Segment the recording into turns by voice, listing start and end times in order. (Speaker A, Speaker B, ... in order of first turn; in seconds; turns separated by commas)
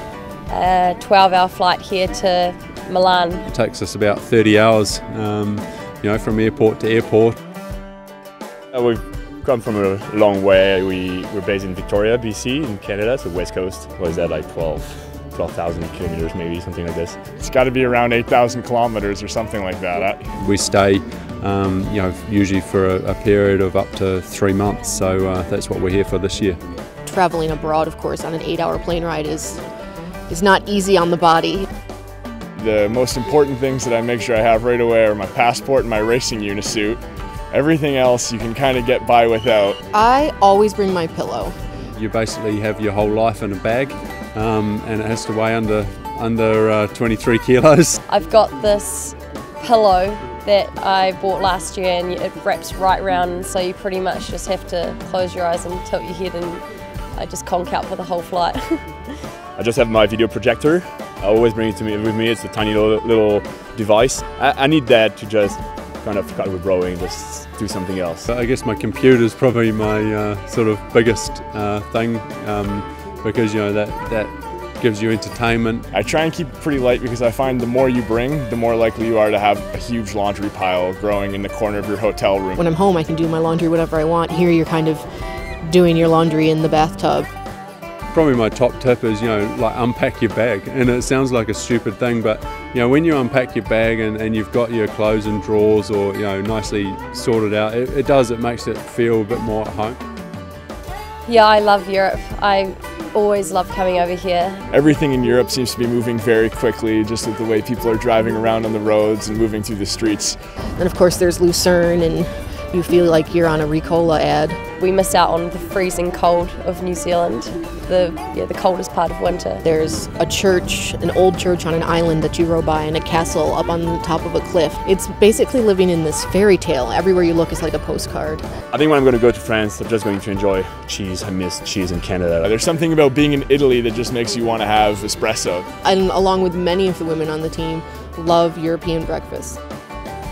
Speaker A: 0.5-3.4, Speaker B: 3.5-7.4, Speaker C: 8.7-17.2, Speaker D: 17.4-20.3, Speaker B: 20.4-26.6, Speaker E: 27.0-29.6, Speaker E: 30.3-31.7, Speaker D: 32.6-39.8, Speaker E: 39.9-41.6, Speaker B: 41.9-48.0, Speaker A: 48.1-59.2, Speaker C: 59.5-68.3, Speaker B: 68.3-75.9, Speaker D: 75.9-82.6, Speaker E: 82.6-85.1, Speaker E: 85.6-87.3, Speaker B: 88.1-100.0, Speaker A: 101.2-104.6, Speaker D: 104.7-110.4, Speaker E: 110.7-114.6, Speaker A: 114.8-119.6, Speaker E: 119.6-128.4, Speaker C: 128.7-132.5, Speaker D: 132.4-135.7, Speaker E: 135.8-139.6